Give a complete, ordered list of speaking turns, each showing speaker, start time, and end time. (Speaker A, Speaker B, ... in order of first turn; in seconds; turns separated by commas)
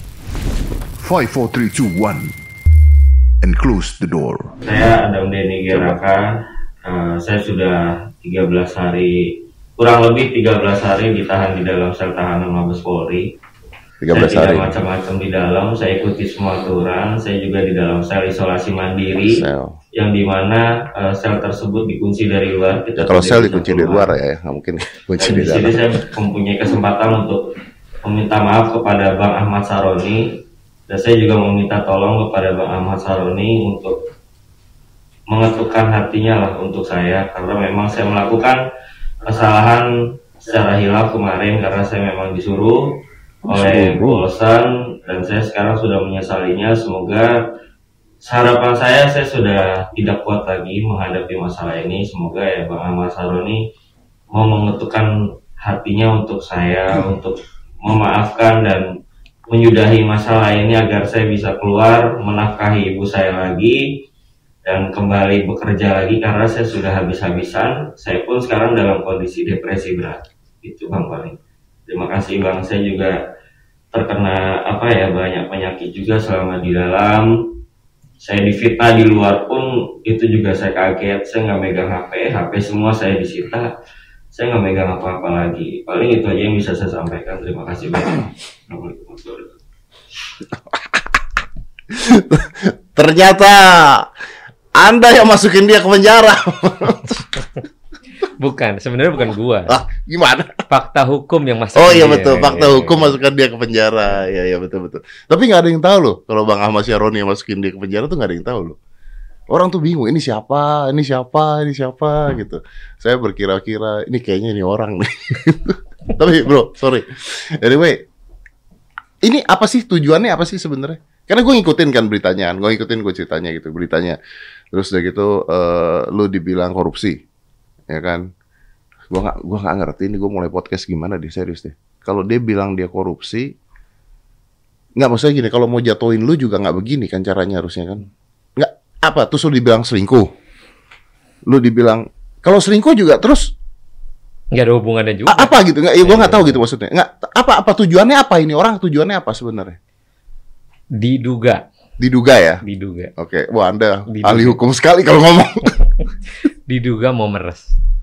Speaker A: 1.0-2.3, Speaker A: 3.4-4.5, Speaker B: 4.6-13.3, Speaker C: 14.0-14.8, Speaker B: 14.1-24.1, Speaker C: 19.2-19.8, Speaker C: 23.0-25.8, Speaker B: 25.2-27.5, Speaker B: 28.0-30.4, Speaker B: 30.9-34.0, Speaker B: 35.3-38.6, Speaker B: 39.2-47.4, Speaker C: 43.5-44.3, Speaker B: 48.2-53.6, Speaker B: 54.3-58.9, Speaker B: 59.5-64.0, Speaker B: 64.7-71.4, Speaker B: 71.9-73.2, Speaker B: 73.9-77.5, Speaker B: 78.2-83.7, Speaker B: 84.3-89.5, Speaker C: 91.9-94.1, Speaker C: 94.8-97.3, Speaker D: 98.2-99.8, Speaker C: 99.7-100.7, Speaker D: 100.7-103.2, Speaker C: 101.7-108.8, Speaker C: 109.5-118.0, Speaker C: 119.2-124.2, Speaker C: 124.7-127.2, Speaker C: 127.9-128.3, Speaker C: 129.1-133.6, Speaker C: 135.0-140.3, Speaker C: 141.5-143.5, Speaker D: 144.5-146.6, Speaker C: 145.3-149.8, Speaker D: 150.9-151.7, Speaker C: 152.0-152.6, Speaker D: 152.6-153.1, Speaker C: 153.2-155.8, Speaker D: 154.1-154.6, Speaker D: 156.7-157.7